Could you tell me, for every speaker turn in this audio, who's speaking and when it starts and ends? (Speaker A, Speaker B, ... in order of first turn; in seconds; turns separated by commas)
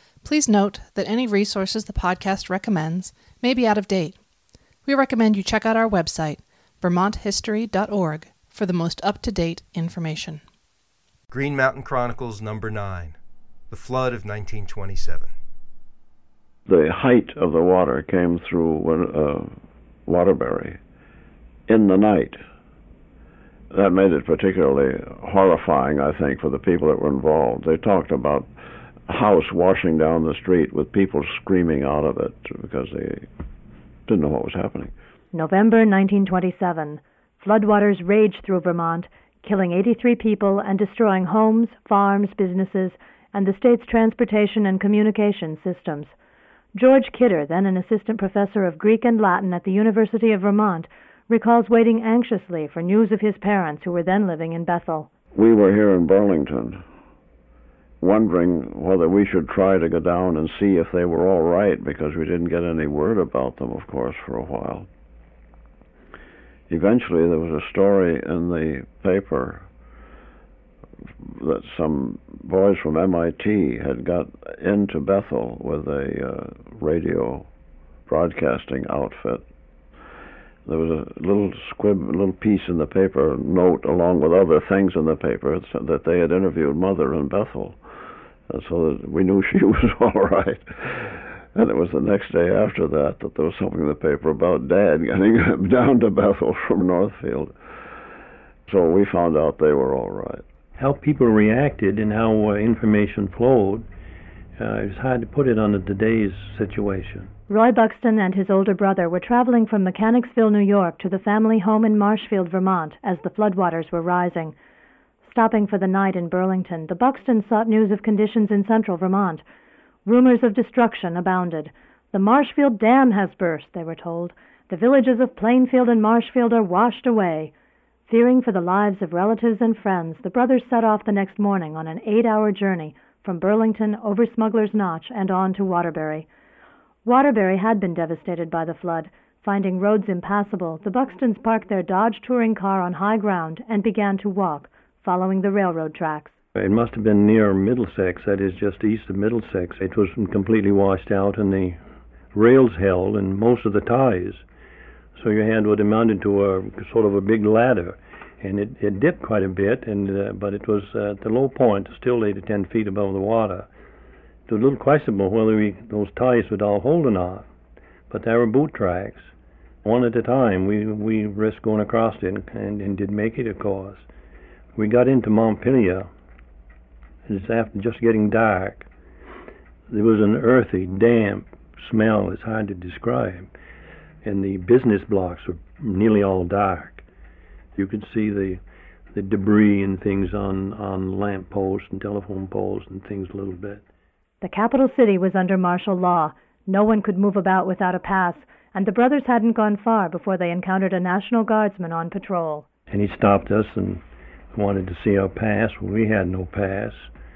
Speaker A: 0.2-4.2, Speaker A: 4.8-10.4, Speaker B: 11.3-13.2, Speaker B: 13.7-15.3, Speaker C: 16.7-19.5, Speaker C: 20.1-20.8, Speaker C: 21.7-22.4, Speaker C: 23.7-28.5, Speaker C: 29.1-33.2, Speaker C: 34.1-34.9, Speaker D: 35.3-46.1, Speaker D: 46.7-55.1, Speaker C: 55.3-56.8, Speaker C: 58.0-64.9, Speaker C: 66.7-69.7, Speaker C: 71.2-77.5, Speaker C: 78.1-79.4, Speaker C: 80.7-87.8, Speaker C: 88.5-97.5, Speaker C: 98.7-100.4, Speaker E: 100.8-103.8, Speaker E: 104.6-107.3, Speaker D: 107.5-114.5, Speaker D: 115.2-119.4, Speaker D: 120.0-127.5, Speaker D: 128.1-136.2, Speaker D: 137.0-146.3, Speaker E: 146.5-151.8, Speaker E: 152.3-154.4, Speaker E: 155.2-163.7, Speaker E: 164.5-167.5, Speaker E: 168.1-169.3, Speaker E: 169.8-174.1, Speaker E: 174.8-176.1, Speaker E: 177.2-178.9, Speaker E: 179.9-183.5, Speaker E: 184.2-187.0, Speaker E: 187.7-188.6, Speaker E: 189.1-193.8, Speaker D: 194.4-202.7, Speaker E: 202.9-204.0, Speaker E: 204.5-207.1